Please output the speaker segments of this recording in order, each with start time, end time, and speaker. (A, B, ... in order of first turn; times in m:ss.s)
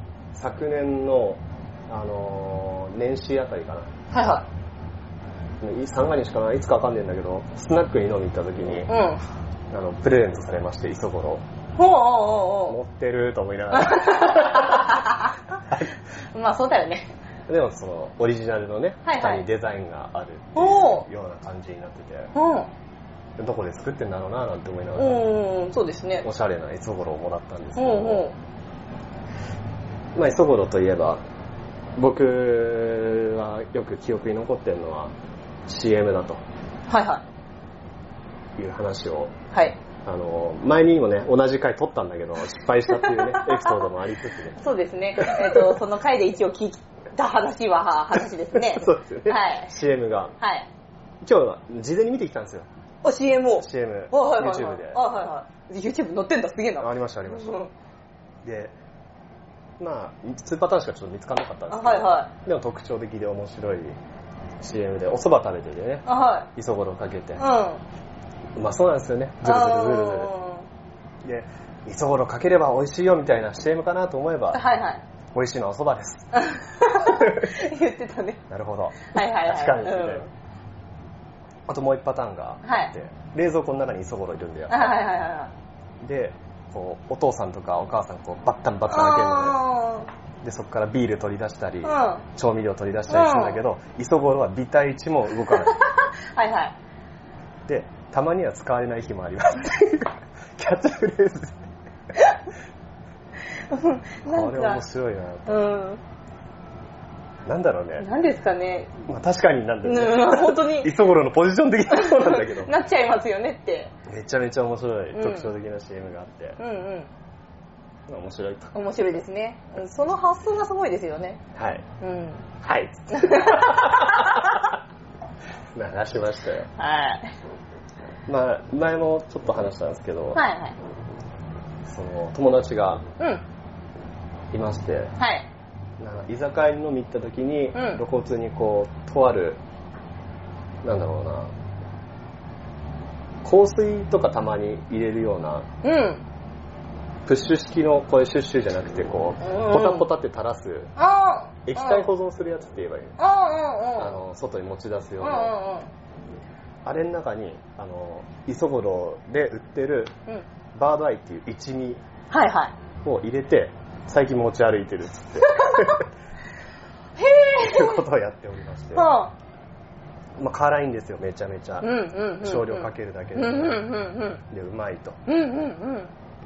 0:00.3-0:03.9 A
0:04.1-0:04.4 B
0:05.6-0:08.9 A
0:08.9-0:09.2 B
0:09.7-0:11.4 A
0:11.8-0:12.8 B
0:12.7-0:15.0 A
0:13.7-0:15.4 B
0:16.3-0:17.1 B
0:17.5-0:22.3 A
0:19.0-0:19.5 B
0:20.6-0:21.1 B
0:22.4-0:22.7 B
0:23.4-0:25.2 A
0:25.0-0:26.3 B
0:26.2-0:28.3 A
0:27.8-0:28.4 B
0:30.2-0:31.2 A
0:32.0-0:35.1 A
0:35.7-0:36.4 A
0:36.9-0:37.2 B
0:38.6-0:39.3 A
0:39.5-0:39.8 B
0:40.0-0:44.6 A
0:42.9-0:43.9 B
0:44.6-0:49.7 B
0:45.2-0:45.8 A
0:48.5-0:50.3 A
0:50.4-0:50.7 B
0:51.2-0:52.7 A
0:53.0-0:57.7 B
0:53.6-0:55.0 A
0:56.8-0:57.6 A
0:58.4-0:58.7 A
0:59.8-1:04.0 A
1:01.7-1:02.3 B
1:04.6-1:07.4 A
1:06.1-1:06.5 B
1:07.4-1:07.8 B
1:08.6-1:10.3 A
1:09.4-1:10.7 B
1:11.2-1:14.6 A
1:14.5-1:15.0 B
1:15.3-1:16.3 A
1:16.4-1:18.4 B
1:17.1-1:17.5 A
1:18.5-1:20.3 A
1:19.1-1:20.3 B
1:21.7-1:24.9 A
1:22.6-1:22.9 B
1:24.7-1:25.5 B
1:26.0-1:29.6 A
1:28.9-1:30.1 B
1:30.4-1:35.8 A
1:31.8-1:32.2 B
1:33.1-1:33.6 B
1:35.5-1:36.8 B
1:37.7-1:41.6 A
1:43.7-1:44.8 B
1:44.2-1:45.6 A
1:45.5-1:46.0 B
1:47.5-1:48.1 A
1:48.0-1:48.9 B
1:49.0-1:52.7 A
1:49.8-1:51.0 B
1:51.9-1:53.9 B
1:54.1-1:56.6 A
1:55.1-1:55.5 B
1:56.6-1:57.1 B
1:58.1-1:58.7 A
1:58.7-2:01.4 B
2:01.6-2:01.8 A
2:02.0-2:02.5 B
2:02.6-2:04.7 A
2:03.1-2:04.5 B
2:05.7-2:06.7 A
2:06.8-2:07.3 B
2:08.3-2:10.4 A
2:10.4-2:10.8 B
2:11.8-2:13.0 A
2:13.2-2:13.4 B
2:14.5-2:15.1 A
2:15.2-2:15.5 B
2:16.0-2:19.6 A
2:17.7-2:18.0 B
2:20.8-2:21.5 A
2:23.4-2:25.7 A
2:25.8-2:26.2 B
2:27.3-2:30.9 A
2:29.4-2:30.1 B
2:31.0-2:32.1 B
2:31.6-2:33.2 A
2:33.2-2:34.2 B
2:34.0-2:35.5 A
2:35.2-2:35.9 B
2:36.8-2:40.1 A
2:40.7-2:42.0 A
2:42.3-2:42.7 B
2:43.0-2:46.1 A
2:45.6-2:45.9 B
2:47.2-2:48.0 B
2:47.6-2:49.1 A
2:48.9-2:49.3 B
2:50.4-2:53.9 A
2:51.8-2:54.4 B
2:54.5-2:55.2 A
2:55.3-2:56.1 B